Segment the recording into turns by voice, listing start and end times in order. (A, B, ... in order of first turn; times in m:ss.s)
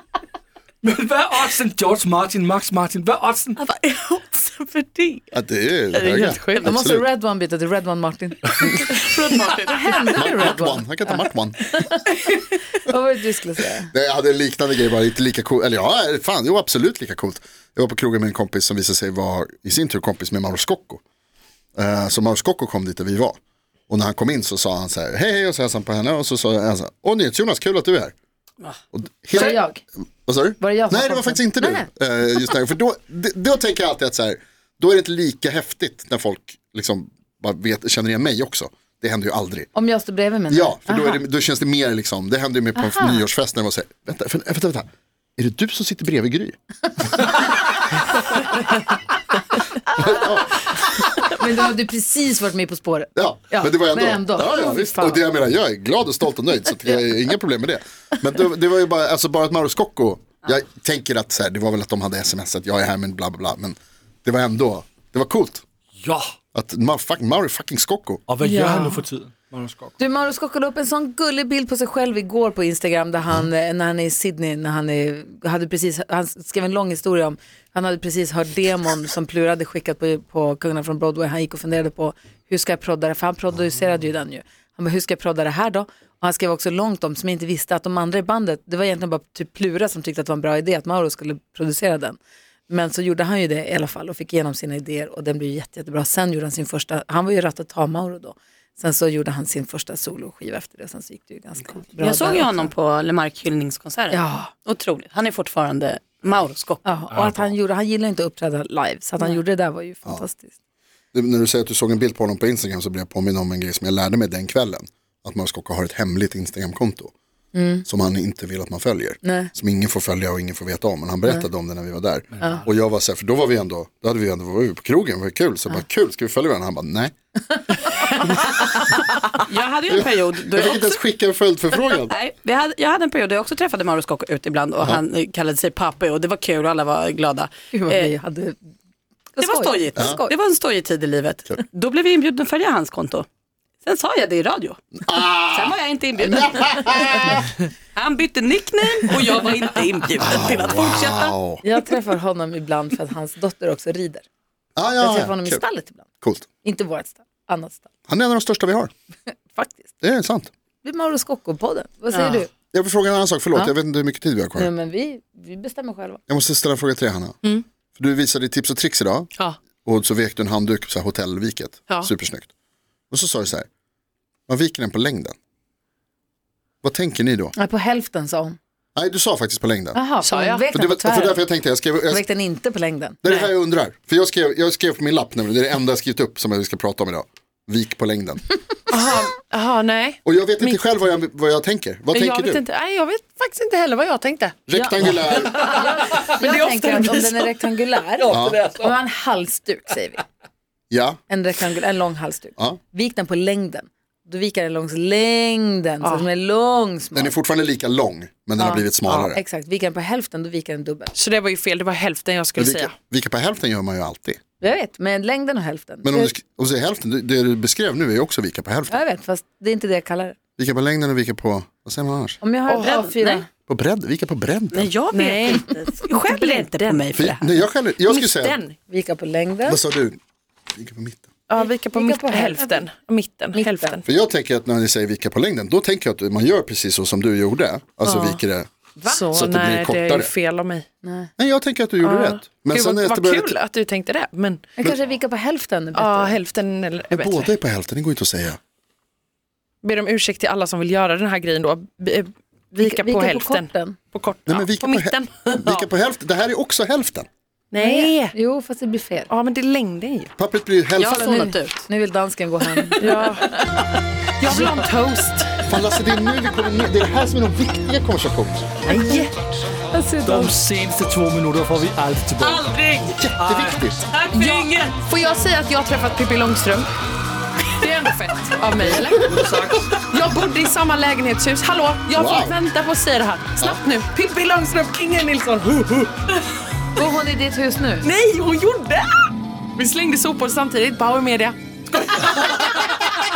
0:00.8-0:03.6 A
0:03.6-0:05.0 B
0:05.3-0:07.0 C
0:05.9-0:06.7 D
0:06.6-0:09.0 E
0:08.8-0:10.5 B
0:09.7-0:13.9 E
0:10.2-0:11.6 C
0:13.9-0:21.0 C
0:21.8-0:23.4 C
0:23.9-0:28.1 C
0:28.9-0:29.6 C
0:29.3-0:29.8 E
0:30.2-0:39.7 C
0:30.6-0:31.9 E
0:39.7-0:41.2 E
0:40.5-0:44.8 C
0:42.8-0:43.2 E
0:45.4-0:46.6 C
0:50.0-0:50.6 C
0:51.2-0:55.2 E
0:53.2-1:05.6 C
1:06.5-1:08.2 C
1:08.3-1:09.9 A
1:08.4-1:09.0 E
1:10.0-1:42.7 E
1:42.0-1:46.8 B
1:44.1-1:44.5 E
1:46.8-1:50.5 E
1:47.1-1:47.4 A
1:51.1-1:57.1 C
1:57.5-1:57.8 E
1:57.8-2:07.1 C
1:59.2-1:59.5 E
2:02.4-2:02.6 E
2:09.4-2:11.0 B
2:09.9-2:12.1 C
2:11.8-2:18.1 B
2:17.7-2:18.6 E
2:19.3-2:20.3 E
2:19.4-2:23.2 B
2:23.8-2:24.8 B
2:25.1-2:27.4 C
2:25.4-2:27.4 B
2:28.0-2:31.3 B
2:30.2-2:31.6 C
2:31.6-2:34.2 E
2:34.8-2:35.6 C
2:35.0-2:36.0 E
2:36.2-2:36.4 C
2:36.6-2:37.9 E
2:38.1-2:38.9 C
2:39.5-2:39.9 E
2:40.0-2:40.5 C
2:40.8-2:42.5 E
2:42.7-2:44.7 C
2:44.5-2:46.2 E
2:46.3-2:47.4 C
2:48.0-2:49.3 C
2:49.8-2:52.5 C
2:53.1-2:53.7 C
2:54.5-2:55.3 C
2:56.8-2:57.5 C
2:57.5-2:58.6 E
2:59.0-3:00.0 C
2:59.9-3:01.5 E
3:00.2-3:00.6 D
3:00.7-3:02.2 C
3:02.0-3:03.2 E
3:03.2-3:08.4 C
3:08.9-3:10.9 D
3:10.2-3:12.6 C
3:12.1-3:14.6 D
3:14.7-3:15.8 C
3:14.7-3:20.2 E
3:15.1-3:17.6 D
3:18.3-3:19.0 A
3:18.3-3:18.6 C
3:20.9-3:21.2 C
3:21.3-3:27.3 E
3:27.1-3:29.4 C
3:28.6-3:31.1 E
3:31.1-3:32.9 D
3:32.6-3:34.4 C
3:34.6-3:36.3 E
3:36.0-3:39.0 C
3:38.9-3:40.4 E
3:40.6-3:42.4 C
3:42.4-3:43.4 E
3:42.7-3:43.4 D
3:42.8-3:43.1 B
3:43.7-3:44.9 C
3:44.7-3:47.4 B
3:45.1-3:47.1 D
3:47.1-3:48.6 C
3:48.0-3:48.8 D
3:48.9-3:49.8 E
3:49.7-3:50.2 C
3:50.7-3:51.3 C
3:51.5-3:54.1 D
3:51.6-3:52.8 E
3:53.5-3:54.0 E
3:54.0-3:58.7 C
3:58.0-3:58.4 D
3:59.0-4:00.9 D
3:59.3-4:00.3 C
4:01.0-4:01.3 E
4:01.4-4:03.5 C
4:02.0-4:04.7 D
4:04.8-4:06.4 E
4:05.9-4:07.5 D
4:07.1-4:08.6 C
4:09.8-4:15.9 D
4:12.8-4:14.0 E
4:14.4-4:17.3 C
4:17.7-4:18.3 D
4:17.8-4:19.3 E
4:19.3-4:20.3 D
4:20.4-4:21.2 C
4:21.0-4:21.8 B
4:21.1-4:21.5 D
4:21.2-4:23.1 E
4:23.0-4:23.6 D
4:24.4-4:25.6 D
4:25.7-4:28.8 C
4:28.9-4:29.3 E
4:28.9-4:29.3 D
4:29.9-4:30.5 E
4:30.2-4:32.8 A
4:32.4-4:33.1 D
4:33.2-4:34.0 C
4:33.4-4:33.9 A
4:34.1-4:34.7 B
4:34.3-4:36.9 D
4:37.6-4:46.4 D
4:38.7-4:39.9 A
4:42.1-4:42.6 C
4:46.9-4:48.1 E
4:48.0-4:53.1 D